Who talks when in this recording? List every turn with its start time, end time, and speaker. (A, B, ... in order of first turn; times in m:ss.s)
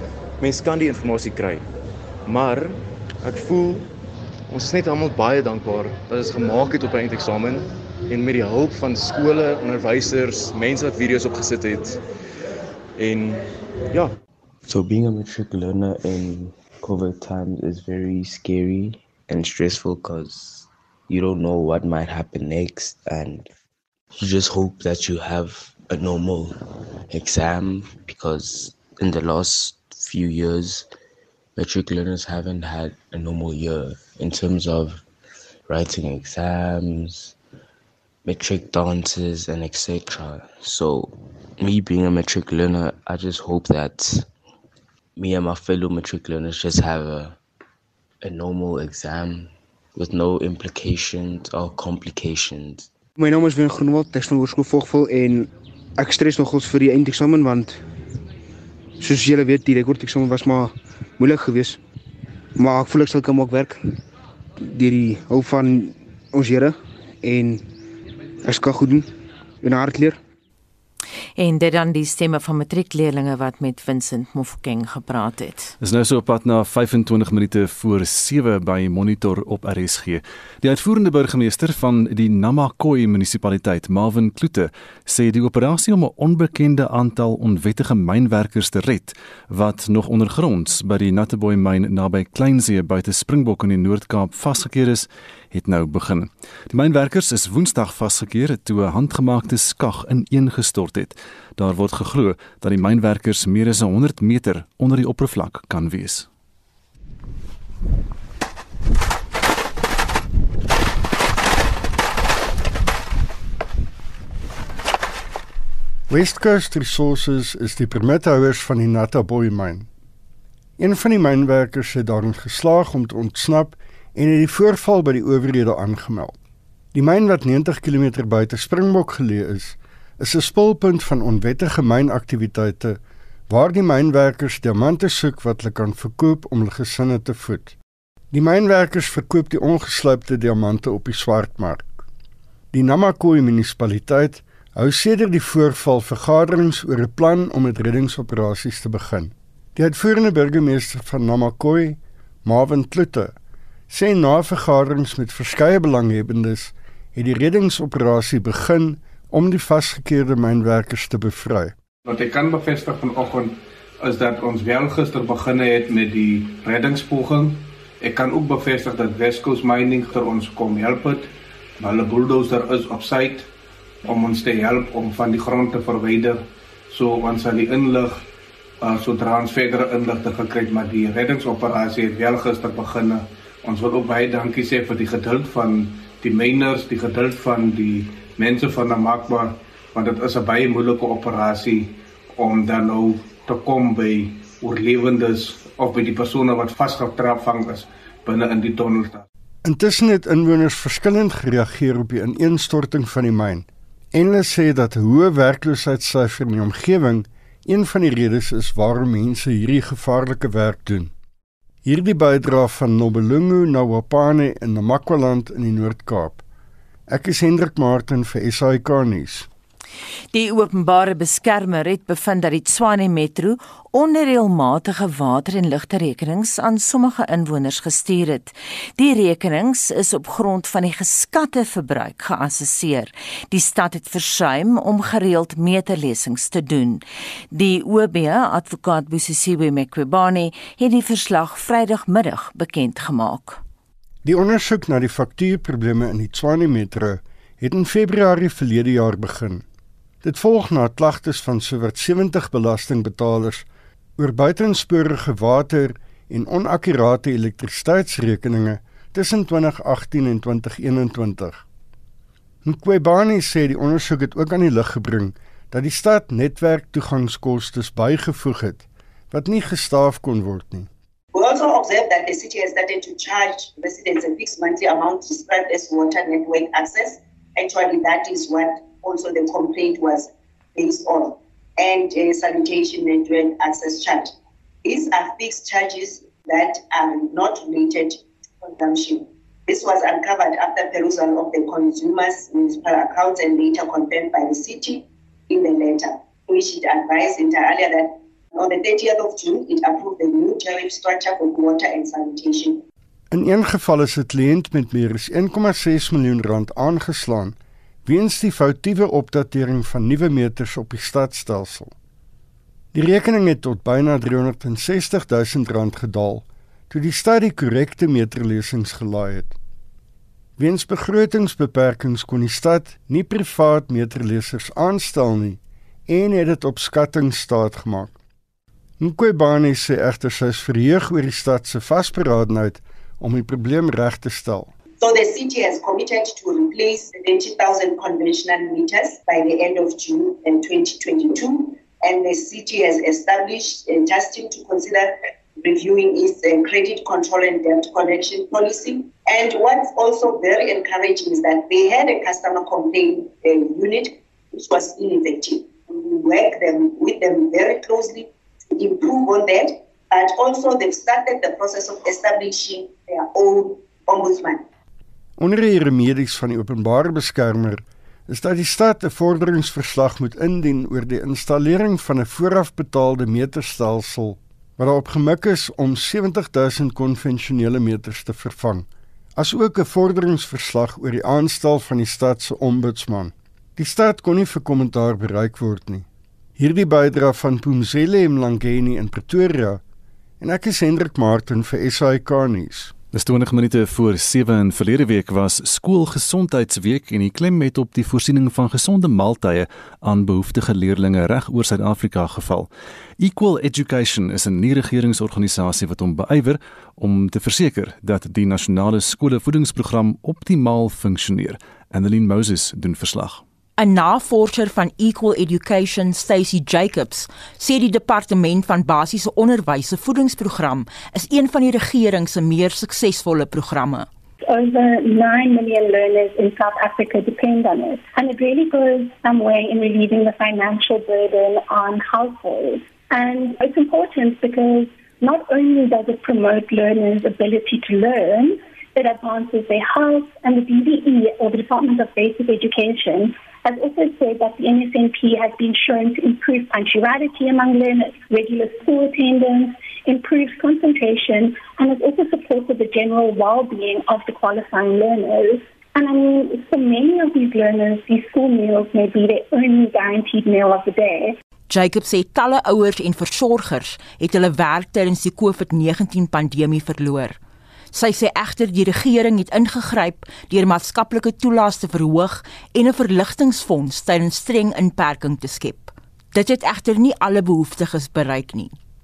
0:00.4-0:01.7 A
0:02.3-0:03.9 A
0:04.5-0:12.0 A
0:13.0-0:14.1 A
0:14.7-0:23.5 B
0:24.2-0:26.5 B
0:27.1-0:30.9 B
0:31.6-0:35.0 B
0:35.7-0:37.4 B
0:38.2-0:44.3 B
0:45.2-0:47.4 B
0:48.2-0:52.9 B
0:53.2-0:57.8 C
0:59.0-1:01.8 C
1:02.6-1:03.8 C
1:04.6-1:07.7 C
1:08.4-1:09.1 C
1:09.6-1:10.2 C
1:11.4-1:15.7 D
1:15.8-1:46.3 E
1:56.1-1:59.9 F
2:00.8-2:06.4 F
2:06.9-2:17.8 F
2:18.3-2:22.0 F
2:22.7-2:33.3 F
2:33.9-2:41.8 F
2:42.0-2:53.5 G
2:54.0-2:58.3 G
2:58.8-3:19.3 G
3:19.6-3:31.1 F
3:31.8-3:36.4 F
3:37.1-3:39.5 F
3:40.3-4:03.6 D
4:04.2-4:09.6 F
4:10.2-4:13.7 F
4:14.2-4:21.6 F
4:22.6-4:30.9 F
4:31.3-4:44.3 H
4:44.8-5:02.8 H
5:03.3-5:11.9 F
5:12.9-5:19.6 F
5:20.6-5:28.2 F
5:29.0-5:34.7 F
5:35.0-6:04.6 H
6:05.4-6:26.1 F
6:26.6-6:29.8 F
6:30.4-6:32.9 F
6:33.1-6:53.4 E
6:53.8-7:04.1 I
7:04.5-7:41.4 J
7:41.7-7:47.4 I
7:47.9-7:58.8 I